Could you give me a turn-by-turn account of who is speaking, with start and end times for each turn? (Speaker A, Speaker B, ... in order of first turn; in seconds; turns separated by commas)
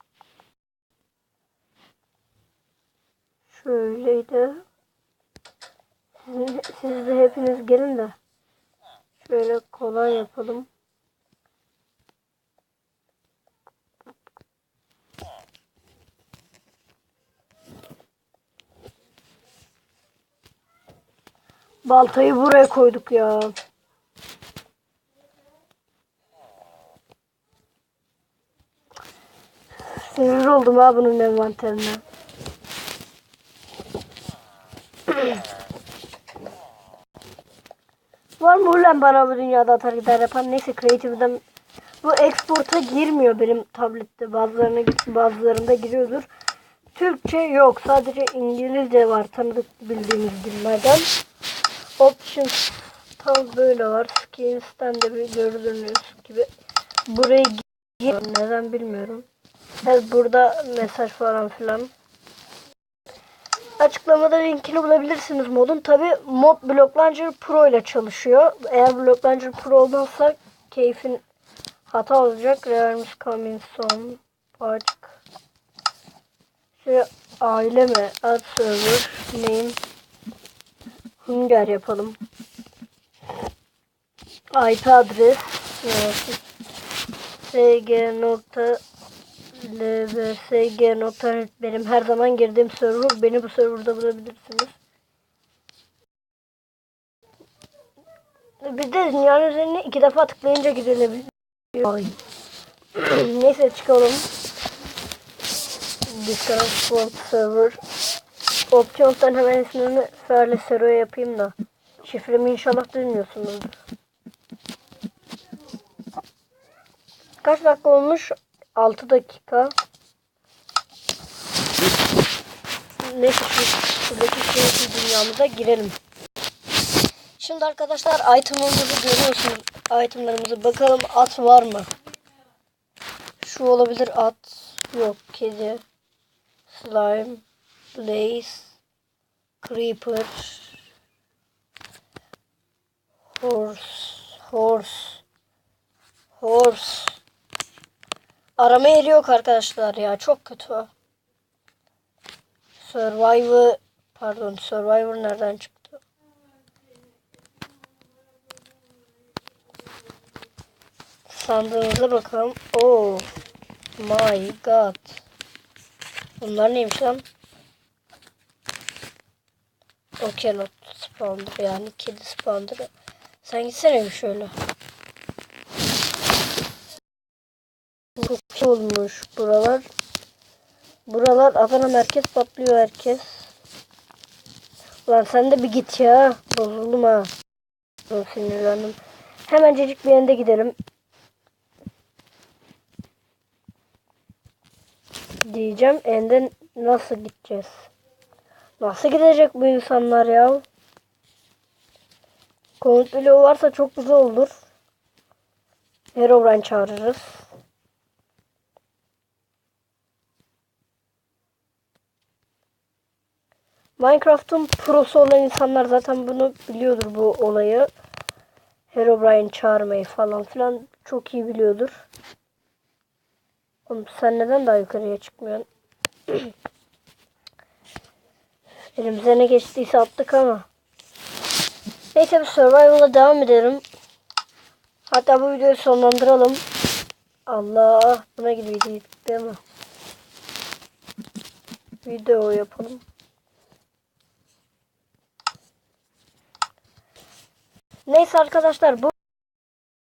Speaker A: 3.5-4.6, Speaker A: 6.2-8.2, Speaker A: 9.2-10.7, Speaker A: 21.9-23.5, Speaker A: 29.8-32.0, Speaker A: 38.4-41.4, Speaker A: 42.0-46.3, Speaker A: 47.0-51.1, Speaker A: 52.0-56.5, Speaker A: 57.1-59.2, Speaker A: 59.8-61.9, Speaker A: 63.8-71.2, Speaker A: 71.9-75.2, Speaker A: 76.8-79.8, Speaker A: 81.2-82.2, Speaker A: 84.5-86.4, Speaker A: 87.5-88.8, Speaker A: 89.5-94.8, Speaker A: 98.6-102.2, Speaker A: 103.0-104.3, Speaker A: 106.1-107.8, Speaker A: 108.7-113.7, Speaker A: 117.4-119.8, Speaker A: 123.0-126.0, Speaker A: 127.4-131.9, Speaker A: 133.4-135.8, Speaker A: 136.7-138.8, Speaker A: 139.6-140.8, Speaker A: 143.3-145.2, Speaker A: 146.4-147.2, Speaker A: 148.6-150.9, Speaker A: 152.8-156.0, Speaker A: 161.3-163.3, Speaker A: 164.0-165.2, Speaker A: 166.4-167.2, Speaker A: 170.2-172.9, Speaker A: 173.4-174.5, Speaker A: 178.2-179.9, Speaker A: 181.1-183.5, Speaker A: 185.1-187.3, Speaker A: 188.1-190.8, Speaker A: 195.4-197.9, Speaker A: 198.8-200.6, Speaker A: 202.8-204.6, Speaker A: 206.2-207.5, Speaker A: 214.0-217.9, Speaker A: 218.9-222.1, Speaker A: 223.9-225.7, Speaker A: 229.0-230.7, Speaker A: 232.1-233.8, Speaker A: 235.1-236.6, Speaker A: 237.5-239.6, Speaker A: 242.0-243.0, Speaker A: 248.1-249.2